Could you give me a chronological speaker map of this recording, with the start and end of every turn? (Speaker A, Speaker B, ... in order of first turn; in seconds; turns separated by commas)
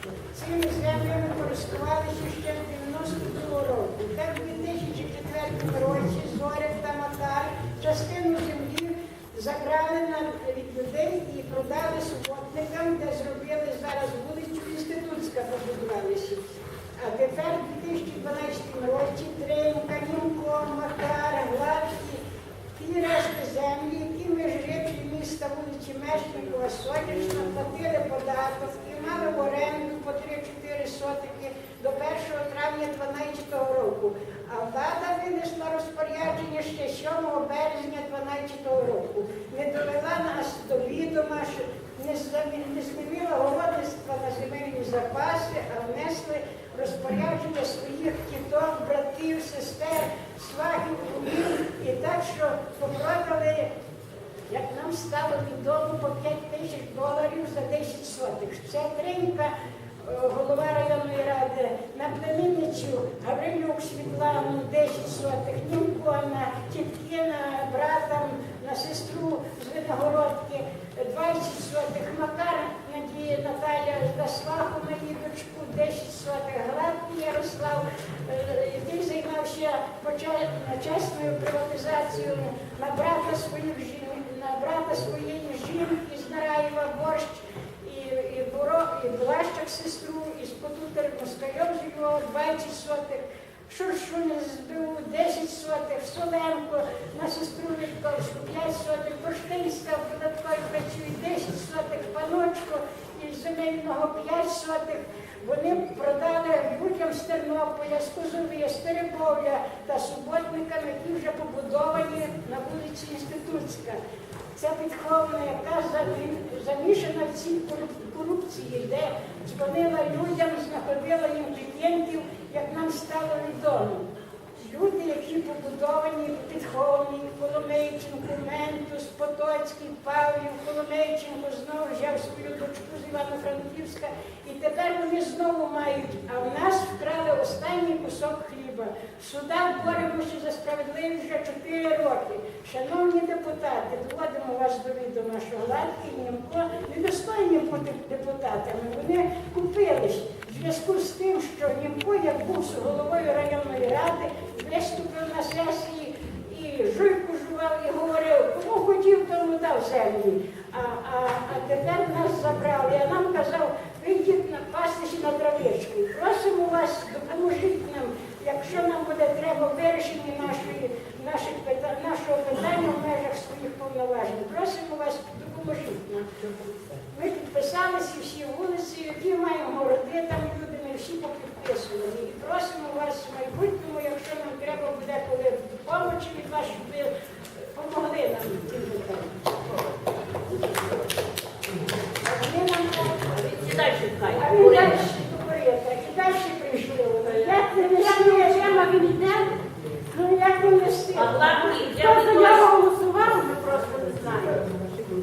Speaker A: 0.3-16.4, Speaker A: 17.0-22.2, Speaker A: 22.7-53.7, Speaker A: 54.5-59.5, Speaker A: 60.0-114.0, Speaker A: 114.5-124.1, Speaker A: 124.6-176.2, Speaker A: 177.1-189.5, Speaker A: 192.2-193.3, Speaker B: 193.1-195.1, Speaker A: 194.3-199.3, Speaker C: 197.8-199.6, Speaker A: 200.1-202.7, Speaker B: 201.2-202.7, Speaker C: 201.9-204.7, Speaker A: 203.7-204.5